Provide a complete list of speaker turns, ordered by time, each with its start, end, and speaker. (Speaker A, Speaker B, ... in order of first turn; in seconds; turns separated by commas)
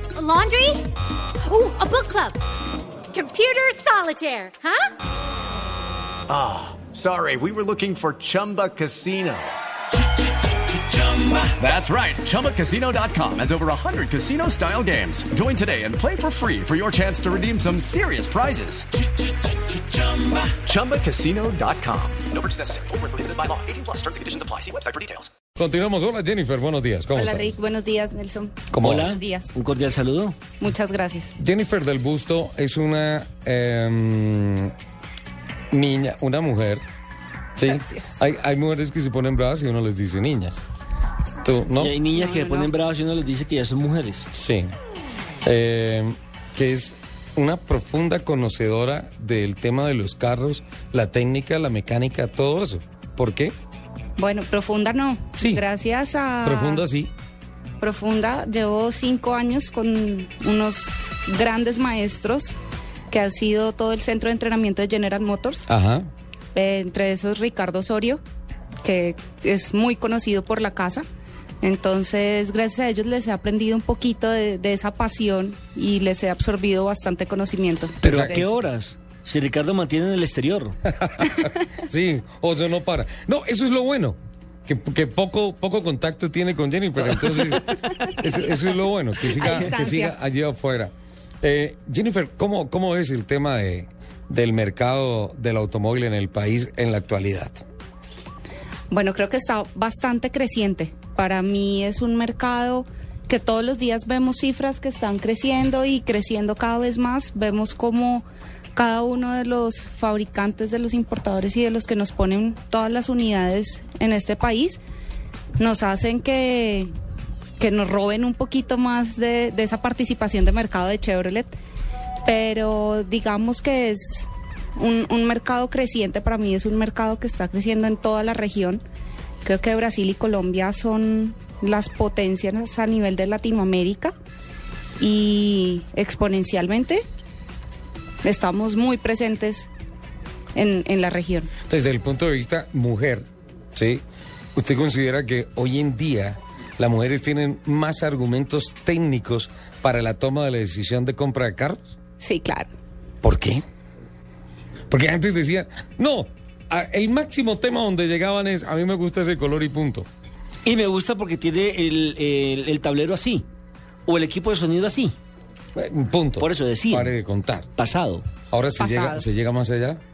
Speaker A: 0.1-0.9, Speaker A: 1.4-2.4, Speaker A: 3.1-4.9, Speaker B: 6.3-9.5, Speaker B: 10.8-18.9, Speaker B: 19.9-25.3, Speaker C: 25.6-27.5, Speaker D: 27.1-29.5, Speaker C: 28.7-29.2, Speaker E: 28.8-30.4, Speaker D: 30.6-31.3, Speaker C: 31.4-34.7, Speaker C: 35.7-36.8, Speaker C: 37.5-40.6, Speaker D: 37.7-38.0, Speaker C: 41.4-41.9, Speaker E: 41.8-44.3, Speaker D: 42.1-42.7, Speaker C: 44.3-44.7, Speaker C: 45.4-53.5, Speaker D: 54.2-56.8, Speaker C: 55.4-55.6, Speaker C: 56.4-57.1, Speaker D: 57.8-62.6, Speaker D: 63.1-65.7, Speaker C: 65.7-66.1, Speaker D: 66.5-68.2, Speaker D: 68.8-71.0, Speaker D: 71.6-78.5, Speaker C: 78.0-78.4, Speaker E: 78.0-80.8, Speaker C: 80.9-90.9, Speaker D: 81.2-81.5, Speaker D: 87.8-88.2, Speaker D: 89.3-90.2, Speaker C: 91.4-97.6, Speaker D: 98.9-114.8, Speaker D: 115.6-116.9, Speaker D: 117.6-121.5, Speaker D: 122.2-128.8, Speaker D: 129.4-134.1, Speaker D: 135.0-137.0, Speaker D: 138.2-139.7, Speaker D: 140.5-141.5, Speaker C: 141.7-144.0, Speaker C: 144.5-151.9, Speaker D: 152.2-152.7, Speaker C: 153.2-153.6, Speaker C: 154.9-160.1, Speaker E: 160.6-163.4, Speaker E: 164.1-165.1, Speaker C: 165.7-167.7, Speaker E: 166.4-167.1, Speaker E: 167.8-168.2, Speaker C: 168.5-170.0, Speaker D: 168.8-169.2